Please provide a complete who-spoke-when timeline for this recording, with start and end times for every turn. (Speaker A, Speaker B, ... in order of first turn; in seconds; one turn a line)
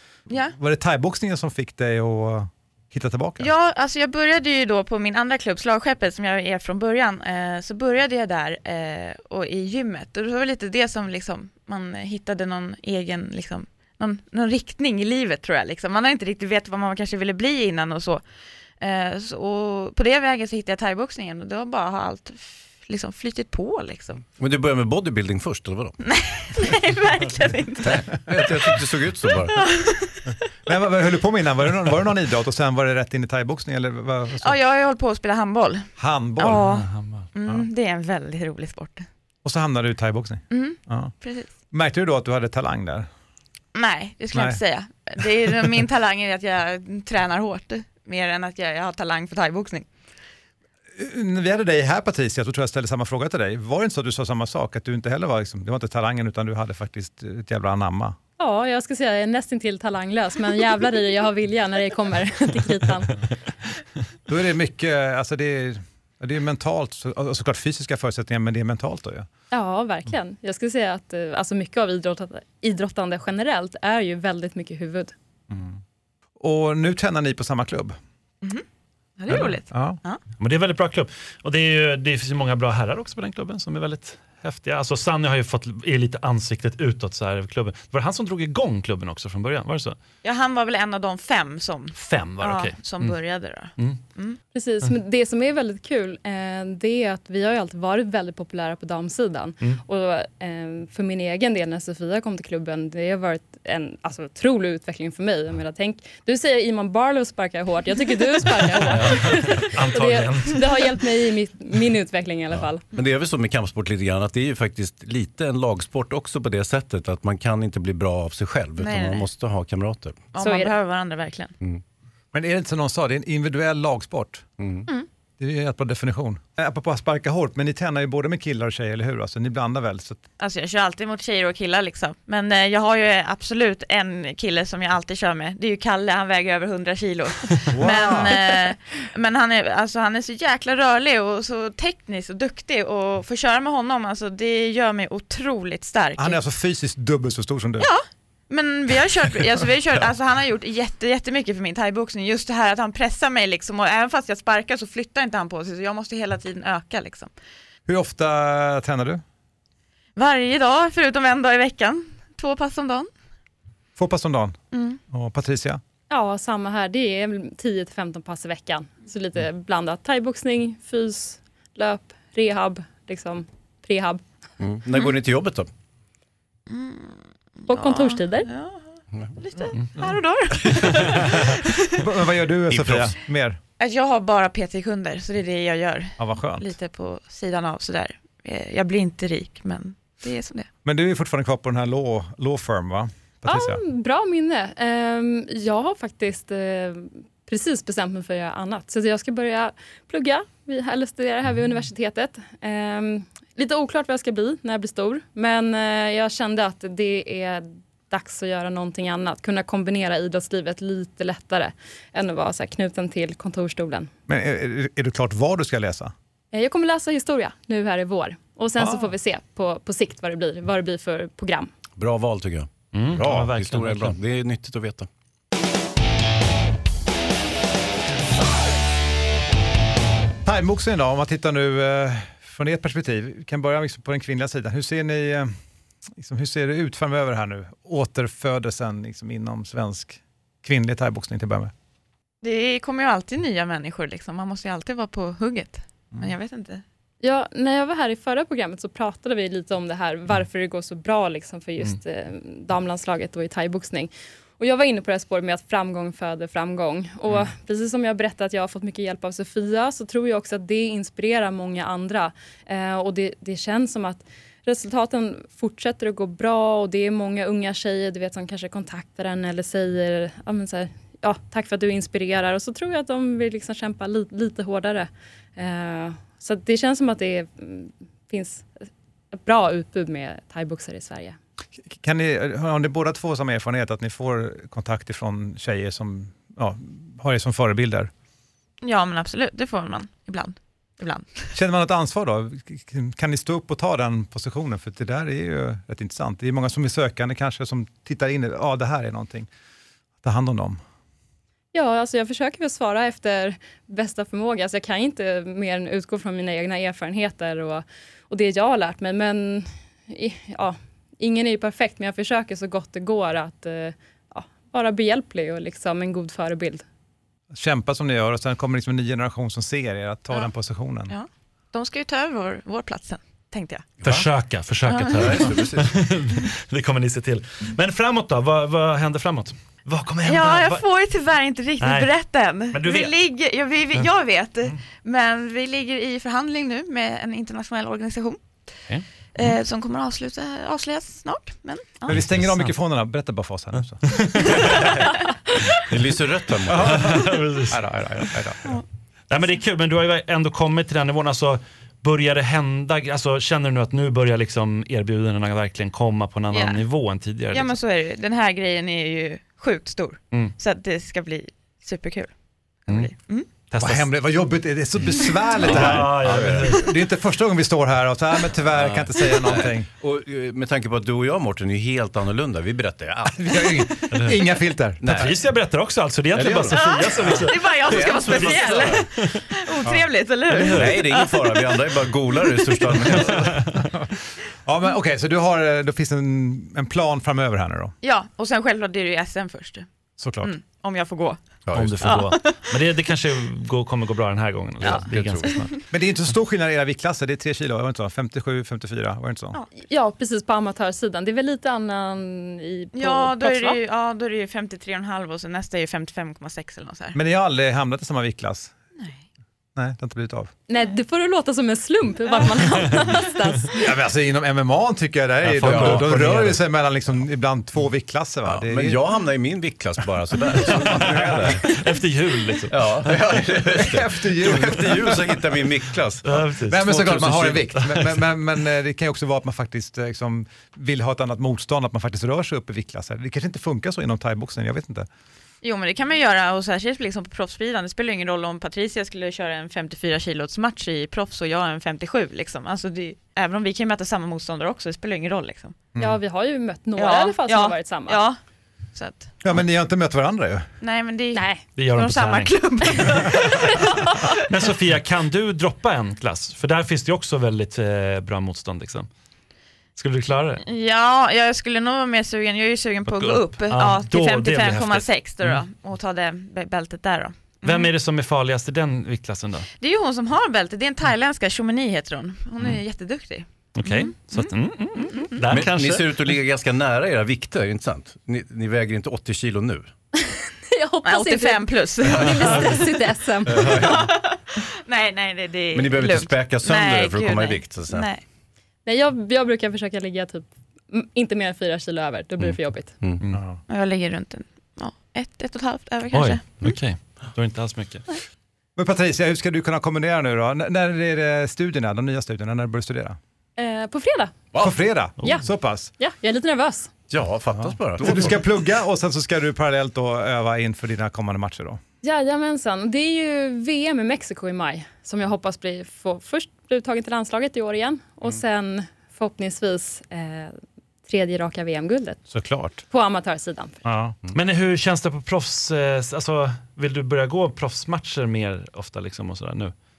Speaker A: 0.3-0.6
Speaker B: 0.5-3.5
Speaker A: 3.4-18.2
Speaker A: 18.8-24.2
Speaker C: 24.4-25.9
Speaker A: 26.0-28.6
Speaker C: 27.8-29.6
Speaker A: 29.4-30.1
Speaker B: 30.6-34.5
Speaker A: 34.4-39.1
Speaker B: 36.0-36.7
Speaker D: 36.6-37.3
Speaker B: 39.4-41.1
Speaker A: 40.5-41.5
Speaker B: 41.7-43.1
Speaker A: 43.7-49.9
Speaker B: 44.3-44.6
Speaker B: 51.0-58.2
Speaker E: 58.4-63.2
Speaker B: 64.3-69.3
Speaker E: 69.5-75.1
Speaker B: 75.5-75.8
Speaker B: 76.4-78.0
Speaker A: 79.2-80.2
Speaker B: 79.3-80.0
Speaker D: 80.4-90.0
Speaker A: 90.2-94.4
Speaker D: 91.9-93.2
Speaker E: 94.5-112.9
Speaker D: 109.1-110.6
Speaker C: 112.6-120.3
Speaker A: 118.8-119.3
Speaker A: 120.3-121.5
Speaker E: 120.4-120.7
Speaker B: 122.3-124.5
Speaker C: 124.6-124.9
Speaker B: 125.4-130.2
Speaker A: 130.4-146.4
Speaker B: 137.7-138.4
Speaker B: 146.2-147.9
Speaker A: 147.8-157.3
Speaker B: 157.9-159.2
Speaker A: 160.2-163.1
Speaker B: 164.0-164.6
Speaker A: 164.7-165.0
Speaker B: 165.1-165.8
Speaker E: 166.1-174.2
Speaker C: 174.6-175.7
Speaker A: 176.7-178.8
Speaker E: 177.7-178.5
Speaker A: 179.4-182.1
Speaker B: 182.0-183.6
Speaker A: 183.8-190.7
Speaker B: 186.2-186.7
Speaker B: 190.8-193.8
Speaker E: 193.5-214.1
Speaker B: 214.3-216.1
Speaker E: 216.5-221.7
Speaker B: 218.8-219.1
Speaker C: 222.0-225.1
Speaker D: 222.9-224.2
Speaker B: 230.4-235.5
Speaker B: 236.2-241.7
Speaker A: 242.4-246.8
Speaker E: 247.2-278.7
Speaker E: 279.3-281.4
Speaker B: 281.9-288.1
Speaker A: 288.8-291.5
Speaker B: 291.5-299.5
Speaker B: 300.2-300.8
Speaker E: 301.7-316.8
Speaker B: 317.5-321.1
Speaker A: 321.1-323.9
Speaker C: 324.0-324.3
Speaker D: 324.0-330.8
Speaker C: 325.1-325.9
Speaker A: 330.2-338.4
Speaker D: 331.8-332.1
Speaker D: 332.7-333.1
Speaker D: 338.9-339.5
Speaker A: 339.4-342.1
Speaker B: 342.1-344.6
Speaker D: 342.1-342.7
Speaker D: 344.1-344.7
Speaker C: 345.9-347.2
Speaker D: 346.7-347.8
Speaker B: 347.7-348.7
Speaker D: 349.3-357.7
Speaker A: 356.5-356.8
Speaker A: 357.5-362.3
Speaker A: 362.8-363.5
Speaker D: 363.7-364.1
Speaker B: 363.8-369.9
Speaker C: 365.6-366.7
Speaker D: 365.6-366.9
Speaker C: 368.8-373.7
Speaker B: 373.2-375.2
Speaker C: 375.0-375.3
Speaker D: 375.1-379.4
Speaker C: 376.3-379.0
Speaker A: 376.7-381.7
Speaker D: 380.5-381.0
Speaker C: 380.5-383.7
Speaker D: 383.1-383.7
Speaker B: 384.6-387.9
Speaker A: 388.0-389.9
Speaker B: 390.2-390.5
Speaker A: 390.4-391.4
Speaker C: 391.7-392.2
Speaker D: 391.7-395.7
Speaker A: 392.0-392.5
Speaker C: 394.8-395.6
Speaker A: 394.8-395.7
Speaker B: 395.9-399.6
Speaker E: 399.9-403.8
Speaker A: 402.9-407.2
Speaker B: 407.1-408.7
Speaker B: 409.7-410.5
Speaker E: 410.7-413.8
Speaker B: 413.7-419.1
Speaker D: 415.5-416.6
Speaker C: 415.6-416.4
Speaker C: 418.4-421.6
Speaker D: 420.6-423.2
Speaker C: 422.7-426.4
Speaker B: 423.8-425.4
Speaker D: 426.2-428.2
Speaker B: 426.7-435.1
Speaker C: 427.3-427.6
Speaker A: 435.6-445.8
Speaker E: 446.0-448.2
Speaker A: 447.0-448.4
Speaker A: 448.9-449.3
Speaker B: 449.4-450.7
Speaker A: 450.8-454.3
Speaker E: 451.3-451.6
Speaker D: 451.8-453.3
Speaker D: 454.4-459.1
Speaker D: 459.9-460.6
Speaker A: 460.6-467.9
Speaker D: 463.1-465.6
Speaker D: 467.6-469.7
Speaker A: 469.8-474.5
Speaker D: 473.7-476.4
Speaker C: 475.5-479.9
Speaker E: 480.3-484.0
Speaker A: 481.0-482.7
Speaker D: 482.2-482.8
Speaker C: 483.4-484.1
Speaker A: 483.6-488.2
Speaker C: 485.7-488.1
Speaker E: 488.9-492.9
Speaker B: 493.3-493.6
Speaker A: 493.7-496.4
Speaker D: 496.1-498.0
Speaker B: 498.8-503.2
Speaker E: 503.6-504.4
Speaker B: 504.5-505.9
Speaker E: 505.2-505.4
Speaker E: 506.0-506.9
Speaker C: 507.1-508.4
Speaker B: 507.6-511.8
Speaker E: 512.0-520.5
Speaker E: 521.1-522.2
Speaker B: 522.3-522.8
Speaker E: 522.8-523.8
Speaker B: 523.8-524.1
Speaker D: 524.3-529.7